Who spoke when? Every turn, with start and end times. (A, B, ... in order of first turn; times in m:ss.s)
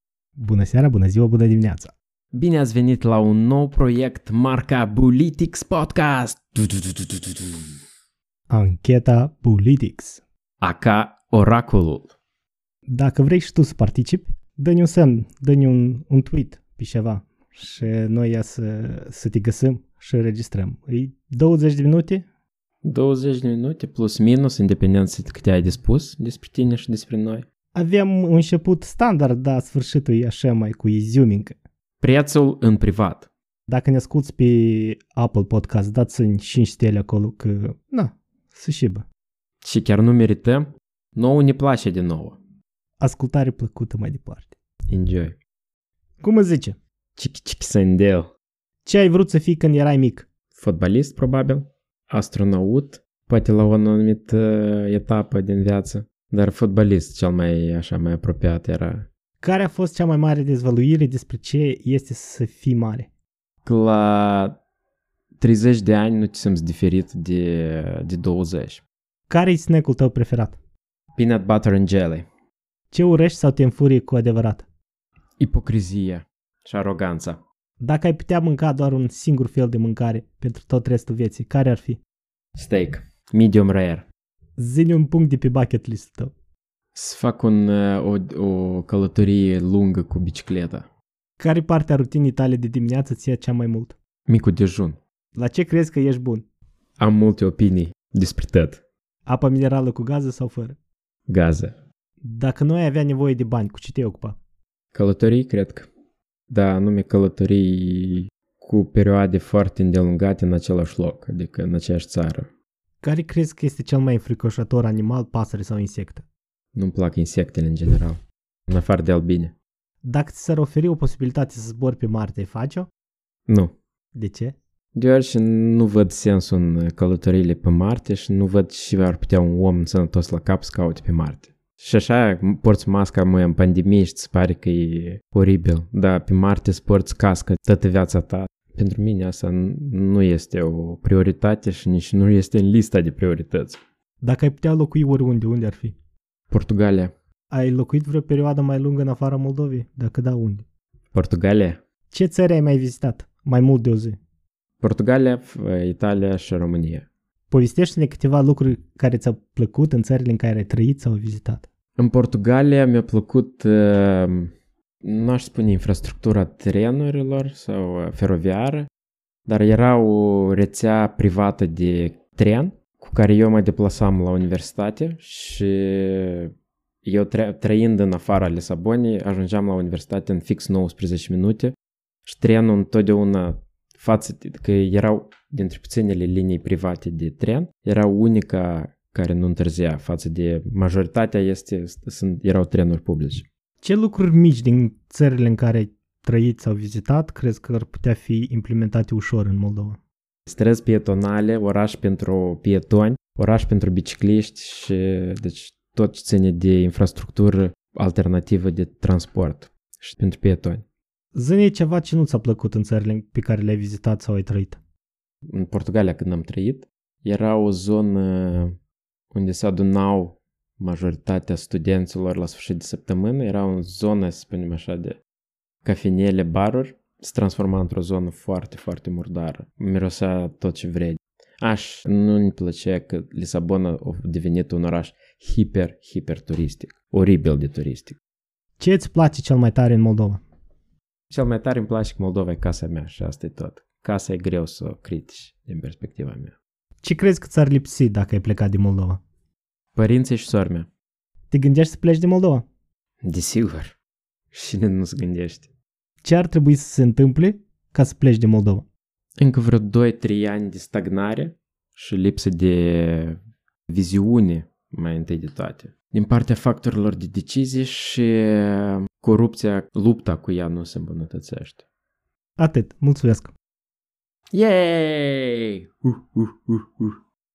0:00.4-0:01.9 A
0:02.3-0:07.6 B
0:08.5-0:10.2 A
0:10.6-0:12.1 B
0:12.9-0:22.2 A
0:22.8-0:27.4 B
0:27.7-0:31.6 A
0:32.0-0:33.3 B
0:33.7-0:39.0 A
0:39.6-0:42.4 B
0:43.0-0:44.5 A
0:44.9-0:45.4 B
0:46.2-0:46.8 A
0:47.2-0:48.3 B
0:48.8-0:50.2 A
0:50.5-0:59.1 B
0:59.4-1:03.1 A
1:03.6-1:04.6 B
1:05.4-1:08.8 B
1:09.3-1:10.6 A
1:11.2-1:12.2 B
1:12.9-1:14.6 A
1:15.4-1:17.4 B
1:17.8-1:22.0 A
1:22.6-1:24.0 B
1:24.6-1:26.3 A
1:26.9-1:30.8 B
1:31.4-1:34.0 A
1:34.3-1:35.0 B
1:35.3-1:36.4 A
1:37.0-1:38.8 B
1:39.2-1:40.8 A
1:41.3-1:41.7 B
1:42.2-1:44.4 A
1:44.9-1:45.9 B
1:46.5-1:52.5 B
1:53.0-1:56.2 A
1:56.7-1:59.5 B
2:00.0-2:02.9 A
2:03.5-2:03.7 B
2:04.1-2:04.6 A
2:04.9-2:23.8 B
2:24.2-2:25.9 A
2:26.5-2:27.1 B
2:27.5-2:30.6 A
2:31.1-2:31.8 B
2:32.1-2:34.2 A
2:34.8-2:37.0 B
2:37.5-2:41.6 A
2:42.0-2:44.5 B
2:45.0-2:48.9 B
2:49.5-2:56.5 B
2:57.0-3:13.5 B
3:13.8-3:20.0 A
3:20.5-3:30.8 B
3:31.3-3:34.8 A
3:35.5-3:38.7 B
3:39.3-3:45.2 B
3:45.8-3:58.2 B
3:58.8-4:00.4 A
4:01.3-4:06.5 B
4:07.0-4:09.2 A
4:09.9-4:10.9 B
4:11.5-4:12.6 A
4:13.2-4:13.9 B
4:14.5-4:15.7 B
4:16.2-4:18.8 A
4:19.4-4:23.4 B
4:23.9-4:31.8 B
4:32.6-4:33.5 A
4:34.5-4:37.2 B